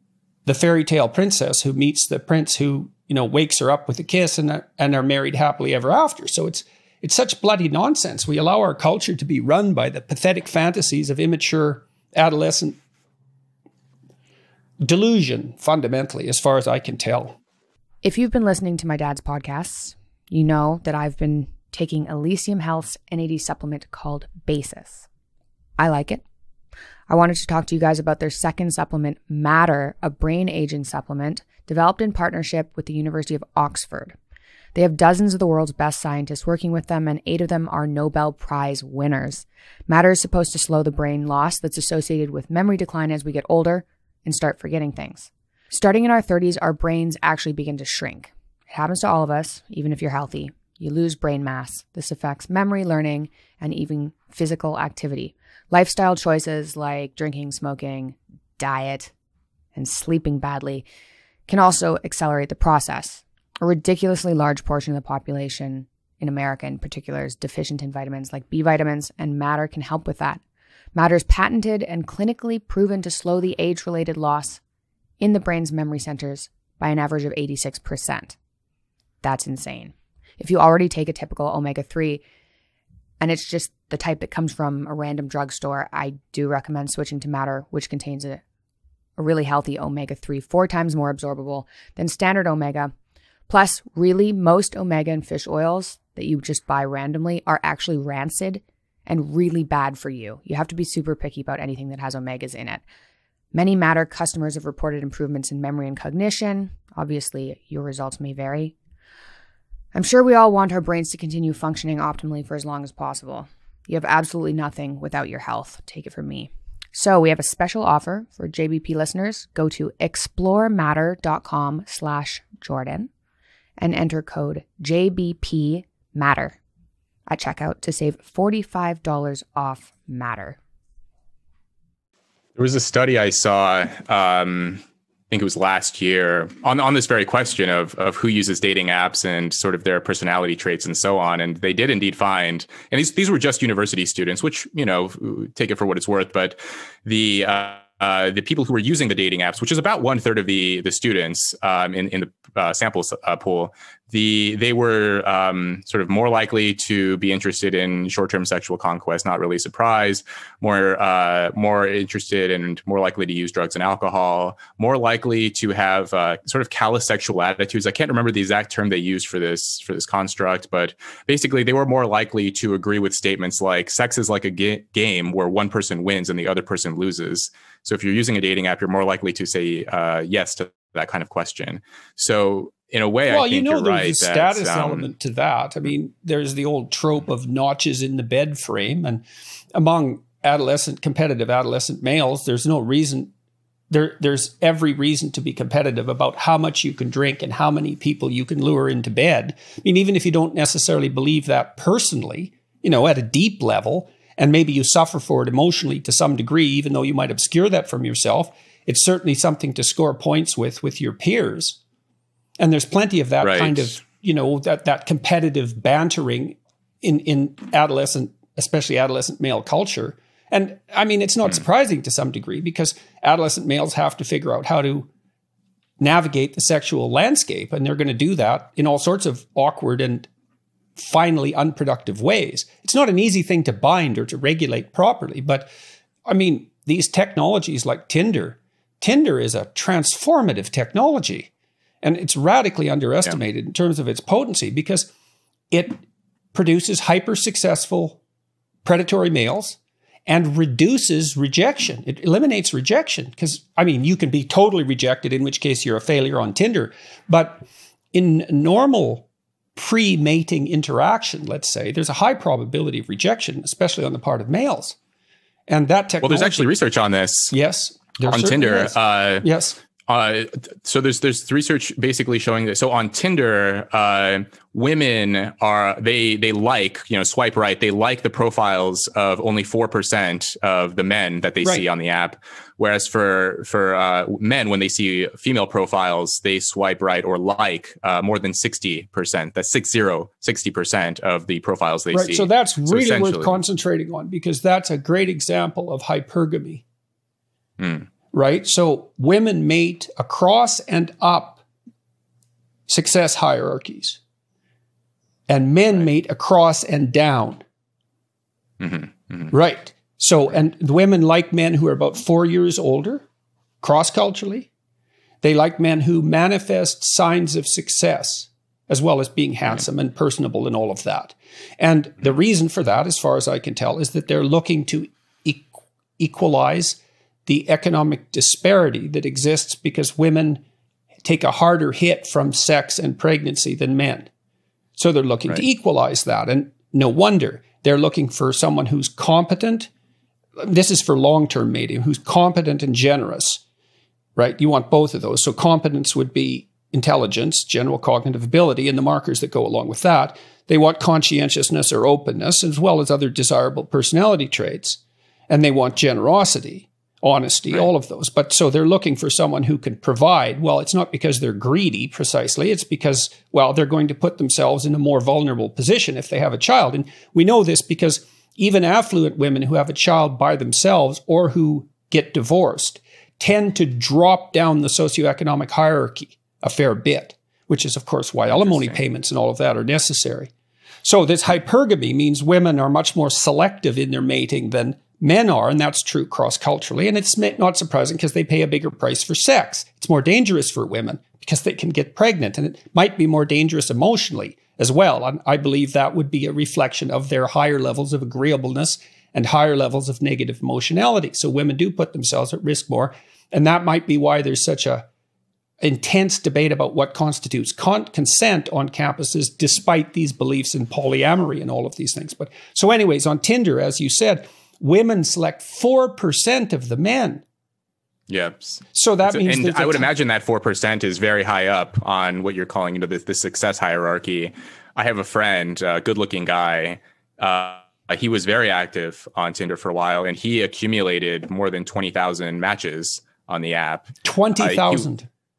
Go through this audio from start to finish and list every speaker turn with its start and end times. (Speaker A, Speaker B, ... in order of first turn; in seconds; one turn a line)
Speaker A: 0.5-12.8
Speaker A: 14.8-17.4
Speaker B: 18.0-25.1
Speaker B: 25.8-26.2
Speaker B: 27.1-34.2
Speaker B: 34.8-59.1
Speaker B: 59.8-60.9
Speaker B: 61.5-70.4
Speaker B: 71.0-74.6
Speaker B: 75.2-78.4
Speaker B: 79.2-82.2
Speaker B: 83.2-88.4
Speaker B: 89.2-92.9
Speaker B: 93.5-102.8
Speaker B: 103.5-108.8
Speaker B: 109.9-123.1
Speaker B: 123.8-126.6
Speaker B: 127.3-130.6
Speaker C: 132.6-185.1
Speaker A: 183.3-193.3
Speaker A: 193.9-211.8
Speaker A: 212.6-225.1
Speaker C: 213.4-214.0
Speaker A: 226.0-230.3
Speaker A: 231.0-235.7
Speaker A: 236.3-241.5
Speaker A: 242.0-245.1
Speaker A: 245.7-246.0
Speaker A: 246.5-248.2
Speaker A: 248.8-265.0
Speaker A: 265.7-266.7
Speaker C: 266.2-267.5
Speaker A: 267.5-269.8
Speaker C: 268.3-269.5
Speaker C: 270.1-293.6
Speaker A: 292.1-296.8
Speaker C: 297.8-298.1
Speaker A: 298.3-301.6
Speaker A: 302.9-304.2
Speaker A: 305.5-307.6
Speaker C: 308.8-309.5
Speaker A: 309.5-313.3
Speaker A: 313.8-314.7
Speaker A: 315.4-330.6
Speaker A: 331.2-334.3
Speaker A: 335.0-339.9
Speaker A: 340.6-343.6
Speaker A: 344.4-380.5
Speaker C: 378.5-379.0
Speaker A: 381.0-405.1
Speaker A: 405.8-417.4
Speaker C: 418.3-435.1
Speaker A: 418.9-420.1
Speaker A: 434.2-435.3